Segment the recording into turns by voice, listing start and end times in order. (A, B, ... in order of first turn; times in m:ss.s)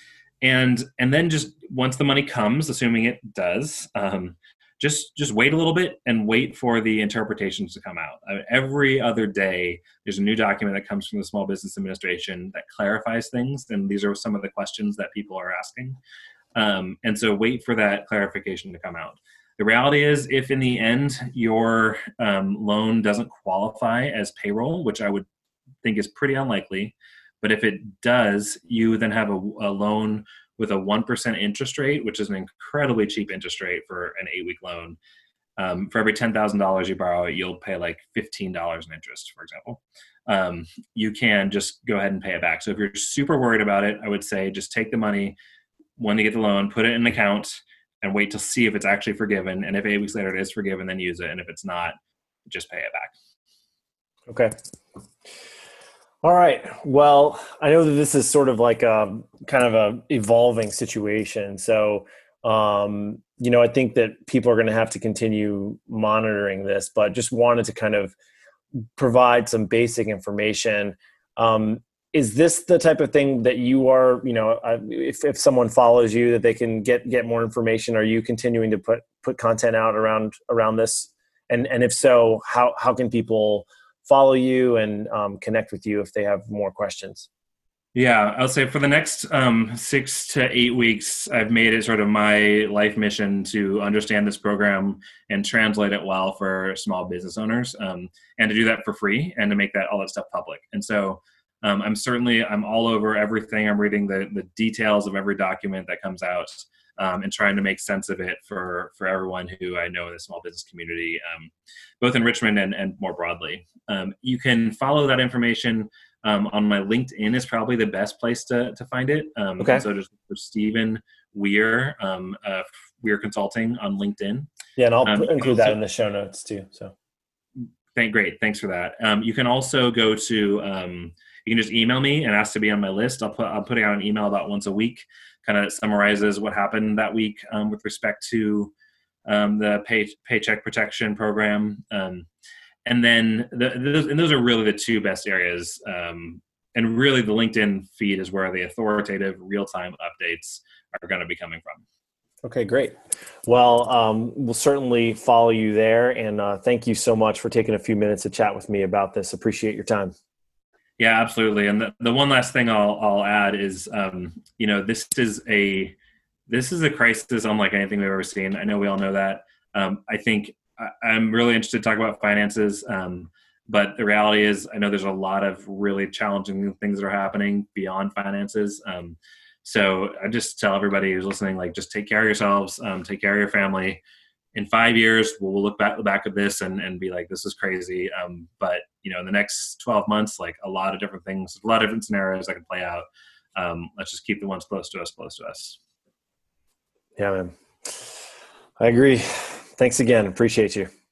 0:00.4-0:16.0 A
0:16.6-0:25.3 A
0:25.8-0:35.0 A
0:35.6-0:45.4 A
0:46.0-0:52.0 A
0:52.5-0:53.2 A
0:54.3-0:54.5 B
0:56.2-1:08.1 B
1:09.0-1:27.3 B
1:28.0-2:04.5 A
1:59.6-1:59.8 B
2:04.8-2:06.9 B
2:05.0-2:05.8 A
2:07.6-2:18.7 A
2:19.3-2:22.3 A
2:22.9-2:31.8 A
2:32.4-2:40.1 B
2:41.0-2:46.0 A
2:46.5-3:04.0 A
3:04.5-3:15.8 A
3:17.2-3:18.1 B
3:18.8-3:20.9 B